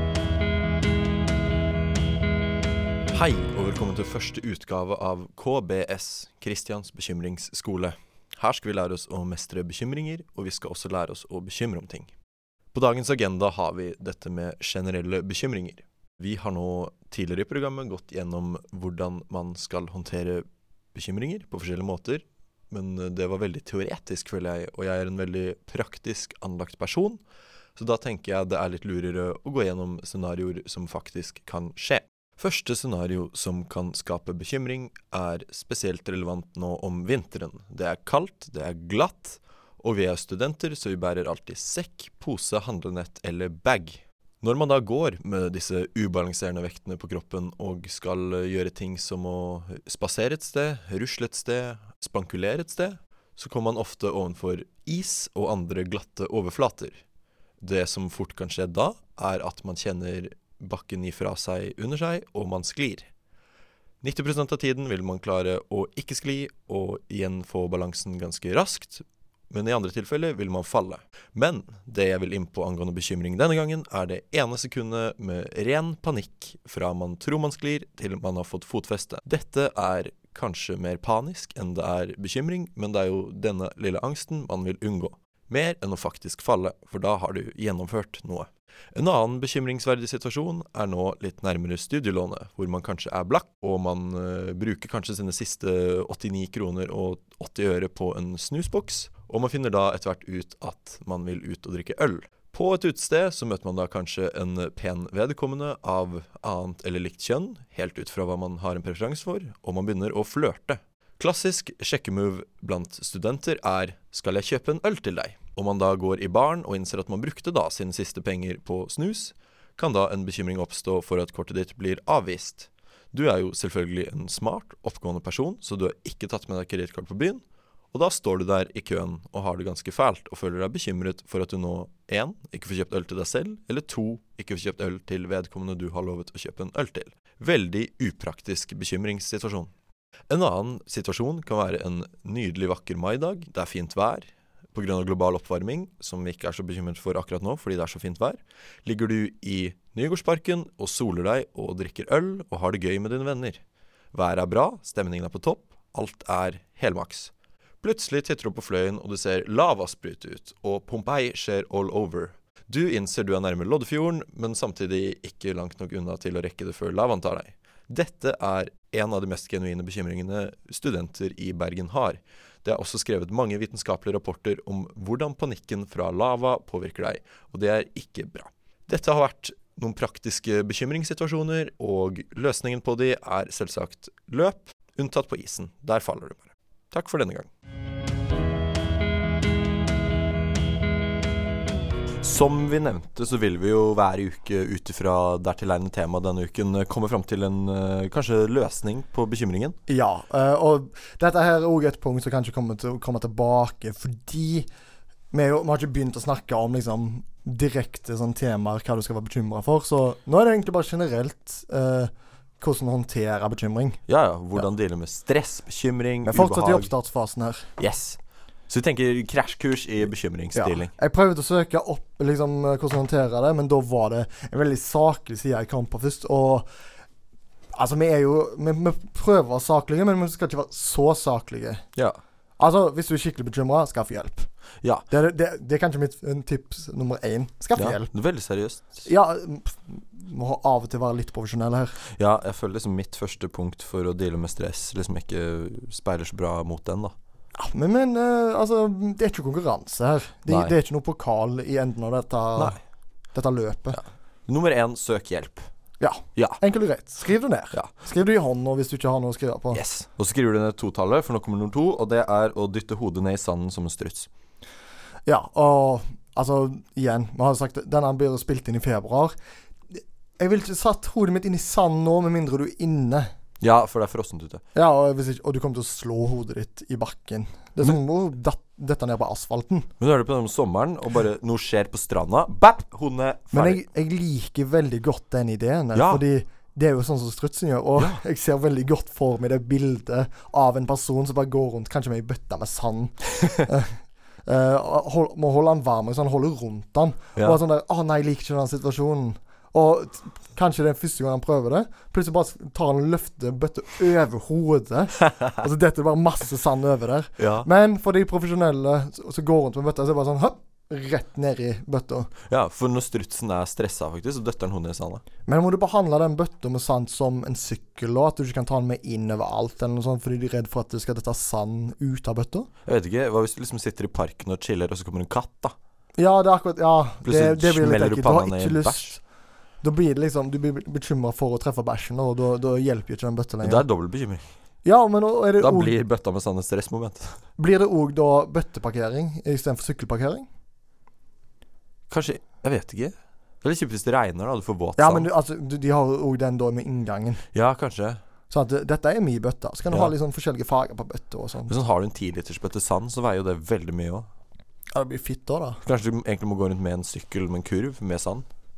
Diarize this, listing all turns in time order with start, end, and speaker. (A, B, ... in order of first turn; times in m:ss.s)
0:03.1-0:12.1 A
0:12.7-0:27.2 A
0:27.8-0:57.0 A
0:57.6-1:03.1 A
1:04.0-2:19.7 A
2:20.3-2:33.6 A
2:34.1-3:07.5 A
3:12.2-3:19.8 A
3:19.9-3:24.7 B
3:25.3-3:34.0 B
3:34.1-3:36.9 A
3:36.2-3:37.7 B
3:37.8-3:38.2 A
3:38.7-3:40.9 A
3:40.6-3:46.7 B
3:47.8-3:51.8 B
3:52.6-3:54.5 B
3:55.1-3:58.1 B
3:57.8-3:59.0 A
3:59.0-4:02.0 B
4:02.2-4:07.1 A
4:07.6-4:12.8 B
4:10.5-4:10.7 A
4:13.3-4:14.0 B
4:14.0-4:15.7 A
4:16.0-4:19.8 B
4:19.7-4:24.3 A
4:25.3-4:29.4 B
4:29.9-4:33.3 B
4:33.6-4:34.6 A
4:34.8-4:39.9 B
4:40.0-4:43.8 A
4:43.5-5:12.3 B
4:46.0-4:46.2 A
5:07.4-5:07.7 A
5:12.5-5:15.2 A
5:15.5-5:22.7 B
5:22.9-5:25.8 A
5:26.2-5:29.2 B
5:27.2-5:29.2 A
5:29.8-5:33.8 B
5:33.6-5:34.4 A
5:34.8-5:36.0 B
5:35.6-5:37.4 A
5:37.6-5:40.5 B
5:42.1-5:45.3 A
5:45.0-5:47.4 B
5:47.5-5:48.2 A
5:48.5-5:51.7 B
5:51.7-5:54.3 A
5:55.0-5:55.8 B
5:55.8-5:58.5 A